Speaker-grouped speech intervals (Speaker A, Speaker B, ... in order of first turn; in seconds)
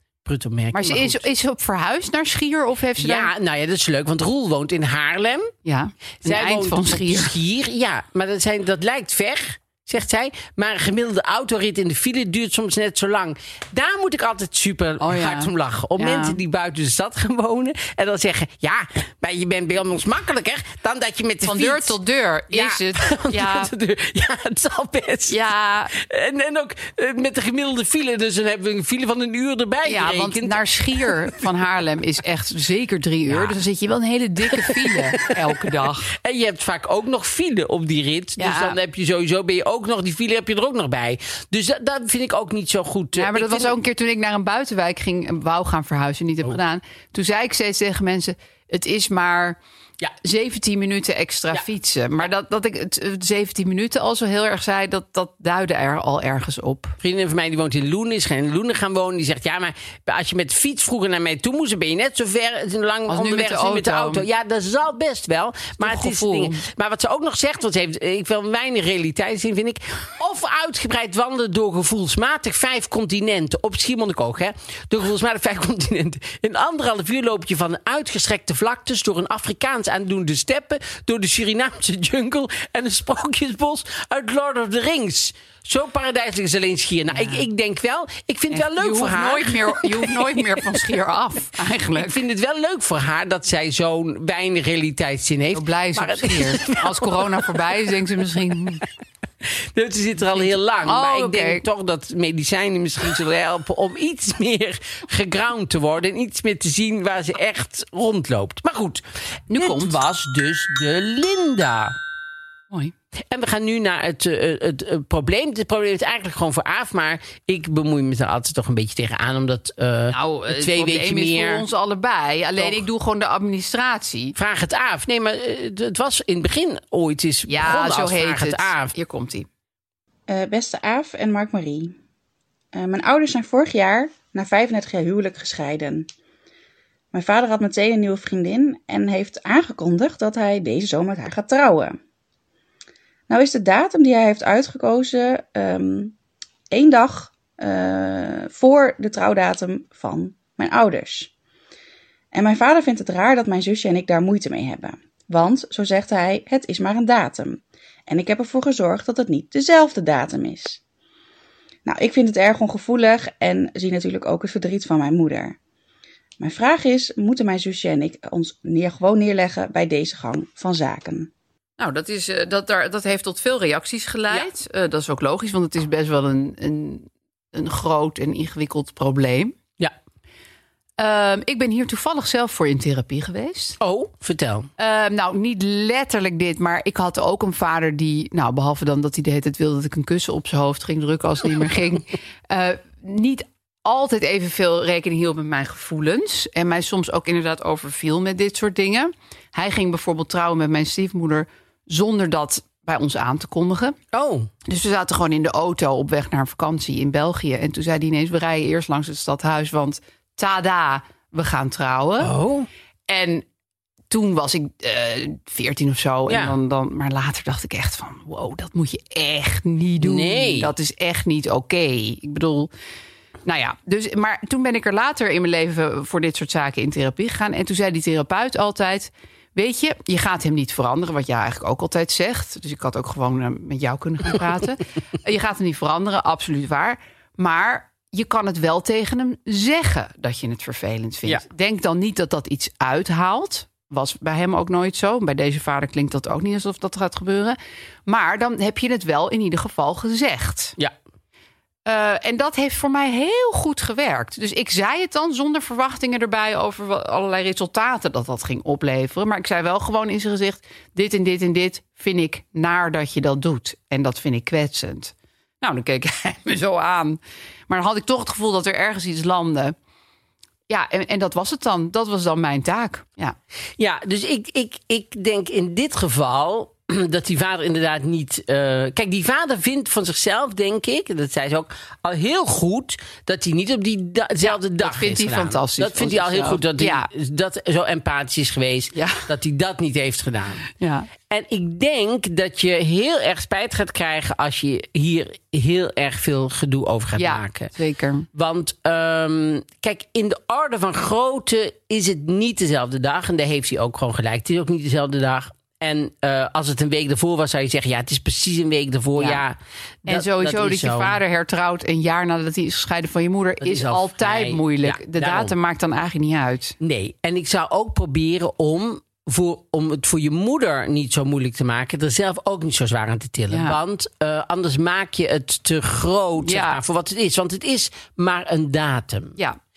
Speaker A: 0.2-1.2, 3.0-5.5, 6.2-22.0, 22.5-31.1, 33.3-33.6, 34.5-43.7, 57.0-90.7, 91.9-97.9, 99.4-112.0, 113.3-121.6, 122.6-122.8, 124.3-128.9, 183.8-184.7, 204.1-204.5, 212.2-212.7, 216.3-216.6, 220.0-220.7, 273.8-290.7, 291.2-297.7, 298.3-311.2, 313.6-315.5, 316.8-329.4
Speaker B: 0.7-3.3, 5.6-7.3, 15.0-16.4, 21.4-23.7, 25.3-25.9, 29.8-36.1, 38.4-38.8, 43.1-49.6, 50.2-57.0, 63.1-64.2, 65.8-66.6, 87.1-87.5, 88.5-92.2, 95.5-98.8, 100.3-101.6, 109.5-110.0, 120.1-124.3, 127.5-129.5, 171.8-179.6, 181.0-183.8, 184.8-204.0, 204.6-212.3, 213.1-213.4, 214.1-222.7, 223.4-250.8, 251.8-269.8, 270.7-273.4, 284.4-287.1, 288.9-289.3, 290.7-291.1, 297.1-298.3, 309.1-309.4, 310.1-316.8, 323.5-323.8, 326.4-326.8
Speaker C: 130.3-132.0, 132.7-136.1, 137.1-142.0, 143.3-146.1, 146.7-151.3, 152.3-160.8, 161.8-165.6, 166.4-171.3